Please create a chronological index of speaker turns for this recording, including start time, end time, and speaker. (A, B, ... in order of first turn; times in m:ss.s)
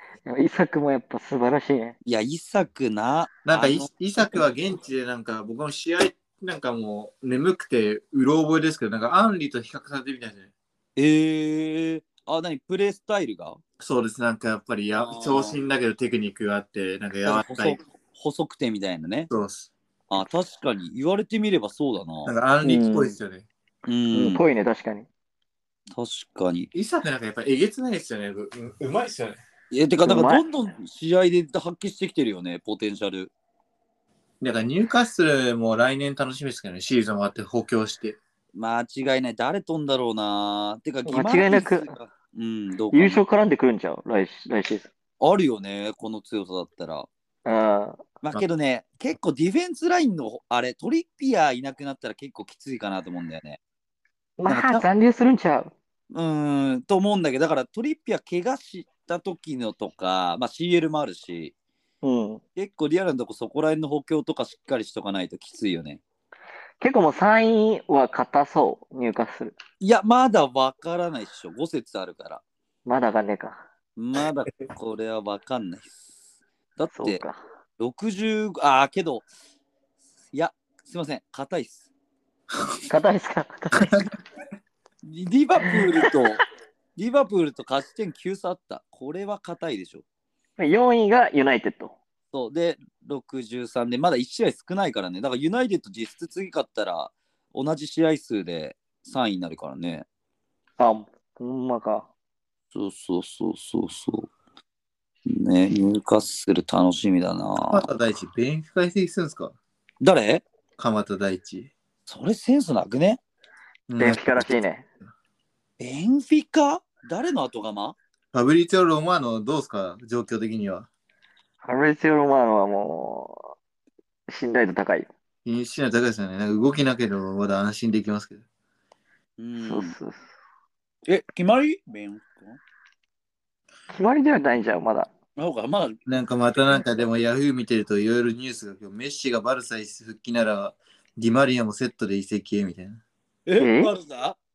0:00.3-0:02.0 A
0:02.0-0:03.9 B
0:03.4-0:10.5 C
0:11.0-0:13.6 B
0:13.8-0:17.8 C
0:15.0-0:15.6 B
0:17.2-0:19.3 B
0:19.3-0:19.7 C
0:20.1-0:22.3 B
0:22.2-0:23.5 C
0:22.6-0:23.2 A
0:23.9-0:24.4 B
0:24.1-0:25.1 A
0:25.9-0:26.7 B
0:26.7-0:29.4 C
0:29.7-0:33.3 B
0:30.0-0:30.4 A
0:34.4-0:38.2 C
0:38.6-0:43.2 B
0:41.1-0:41.9 A
0:42.9-0:44.9 A
0:45.2-0:47.1 B
0:47.5-0:48.0 A
0:48.2-0:53.6 B
0:54.4-0:55.7 A
0:54.5-0:54.8 B
0:56.1-1:01.5 B
1:02.0-1:02.4 A
1:02.6-1:06.0 B
1:06.8-1:09.6 A
1:09.8-1:12.4 B
1:12.9-1:13.6 A
1:14.0-1:16.1 B
1:16.8-1:17.2 B
1:16.9-1:17.4 A
1:17.8-1:19.3 B
1:20.3-1:21.9 B
1:22.9-1:24.0 A
1:23.8-1:24.1 C
1:25.0-1:26.4 B
1:25.7-1:26.1 A
1:27.0-1:30.0 B
1:30.6-1:32.0 A
1:32.3-1:40.1 B
1:40.8-1:42.1 A
1:42.7-1:44.3 B
1:45.3-1:47.9 B
1:47.7-1:49.6 C
1:50.0-1:50.4 B
1:50.8-1:51.7 C
1:52.1-1:53.2 B
1:53.9-1:54.6 C
1:54.0-1:54.8 A
1:55.8-1:58.0 B
1:58.3-2:00.9 C
2:01.6-2:03.5 A
2:04.3-2:05.1 A
2:05.4-2:08.4 C
2:09.4-2:10.0 B
2:09.6-2:10.2 A
2:11.1-2:12.6 B
2:13.9-2:15.1 A
2:15.4-2:16.0 B
2:16.1-2:23.0 C
2:23.5-2:24.4 B
2:23.6-2:23.9 A